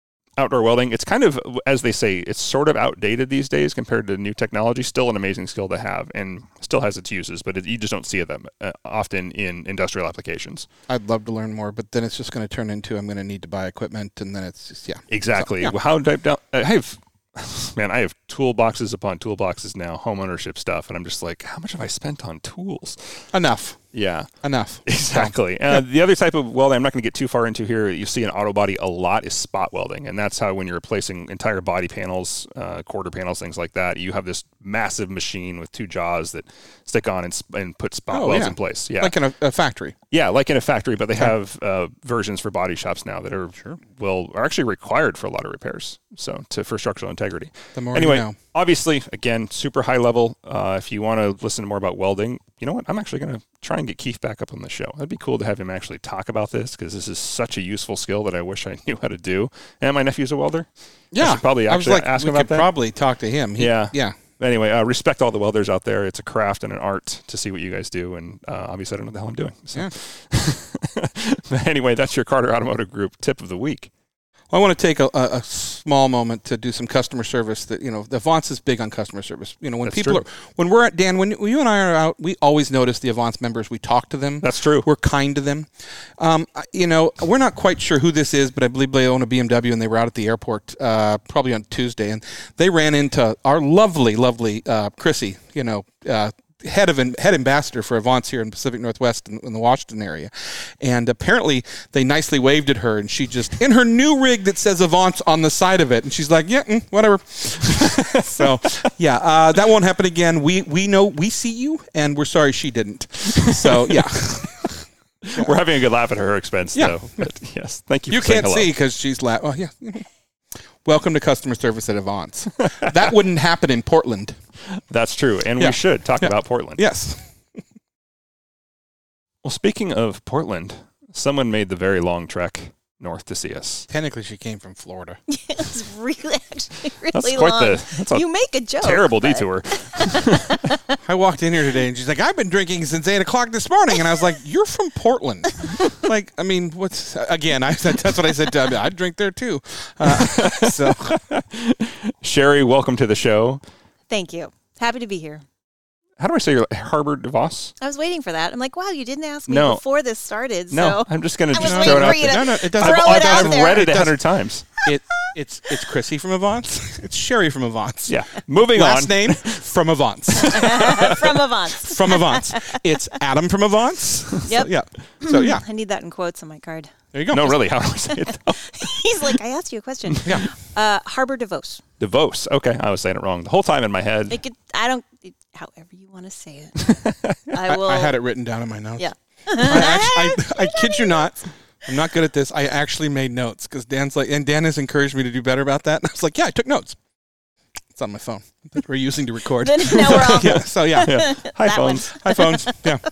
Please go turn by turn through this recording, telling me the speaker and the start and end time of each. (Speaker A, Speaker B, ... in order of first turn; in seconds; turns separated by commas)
Speaker A: 0.4-10.7, Speaker B: 10.9-15.7, Speaker A: 15.1-23.3, Speaker B: 23.3-25.8, Speaker A: 23.9-24.3, Speaker A: 24.9-39.2, Speaker B: 38.1-40.0, Speaker A: 40.1-62.7, Speaker B: 47.8-48.4, Speaker B: 61.1-64.2, Speaker A: 63.6-73.9, Speaker B: 74.5-114.8, Speaker A: 79.8-80.2, Speaker A: 84.4-84.9, Speaker A: 107.8-108.9, Speaker A: 113.3-118.7, Speaker B: 116.8-117.3, Speaker B: 118.1-120.1, Speaker B: 120.8-124.3, Speaker A: 124.8-126.8, Speaker B: 125.6-127.3, Speaker A: 129.4-133.9, Speaker B: 133.9-135.2, Speaker C: 135.3-141.0, Speaker A: 137.1-138.2, Speaker A: 138.8-140.7, Speaker B: 141.0-151.2, Speaker A: 150.0-153.6, Speaker C: 154.1-155.4, Speaker A: 156.2-157.7, Speaker C: 157.8-163.9, Speaker A: 159.5-159.8, Speaker A: 160.7-164.7, Speaker B: 161.6-164.2, Speaker B: 164.7-171.3, Speaker A: 168.1-169.6, Speaker A: 170.4-171.3, Speaker C: 170.5-172.8, Speaker B: 171.8-175.6, Speaker C: 174.4-177.0, Speaker B: 177.1-177.6, Speaker A: 177.3-178.6, Speaker C: 178.3-181.8, Speaker B: 180.2-180.5, Speaker A: 182.0-184.4, Speaker C: 184.3-186.9, Speaker A: 186.8-187.5, Speaker C: 187.5-188.2, Speaker B: 187.7-197.0, Speaker C: 189.0-191.3, Speaker B: 197.9-201.4, Speaker C: 199.6-203.0, Speaker A: 200.0-202.2, Speaker B: 202.1-203.0